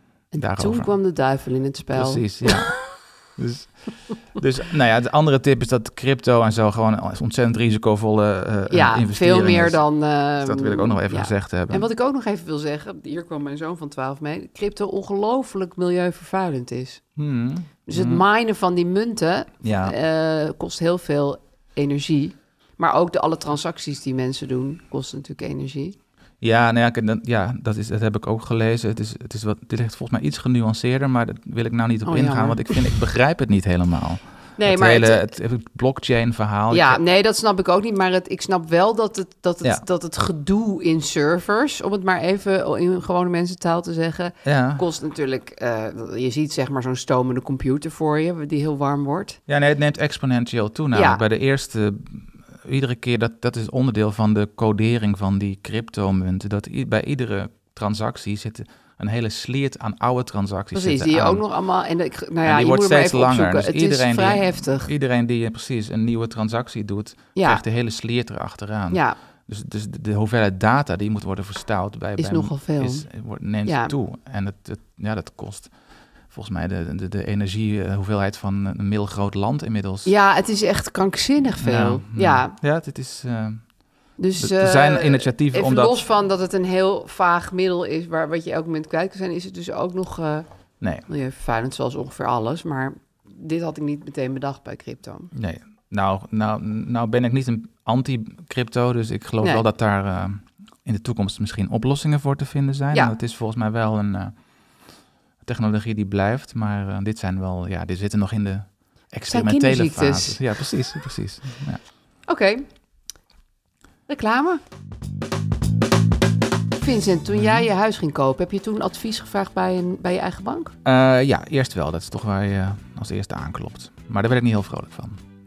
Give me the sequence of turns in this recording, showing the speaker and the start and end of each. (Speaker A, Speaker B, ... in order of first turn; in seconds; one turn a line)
Speaker A: 0.3-2.6
Speaker B: 0.4-0.9
Speaker B: 1.9-9.8
Speaker A: 8.7-17.0
Speaker B: 10.4-11.9
Speaker B: 17.2-18.2
Speaker A: 17.9-25.9
Speaker B: 19.6-19.9
Speaker B: 26.4-37.0
Speaker A: 32.0-32.8
Speaker A: 34.6-35.3
Speaker A: 36.7-49.4
Speaker B: 44.4-44.8
Speaker B: 49.5-61.4
Speaker A: 50.9-51.2
Speaker A: 60.7-64.9
Speaker B: 62.4-75.7
Speaker A: 67.3-67.6
Speaker A: 68.9-69.2
Speaker A: 72.2-73.0
Speaker A: 73.6-73.9
Speaker B: 76.3-80.1
Speaker A: 80.0-82.5
Speaker B: 81.6-83.7
Speaker A: 84.2-90.5
Speaker B: 84.4-86.0
Speaker B: 90.8-91.1
Speaker A: 91.1-95.3
Speaker B: 95.3-104.3
Speaker B: 105.4-111.8
Speaker A: 109.3-110.4
Speaker A: 112.3-112.7
Speaker A: 114.1-114.6
Speaker A: 116.8-120.7
Speaker B: 117.3-117.6
Speaker B: 120.8-125.2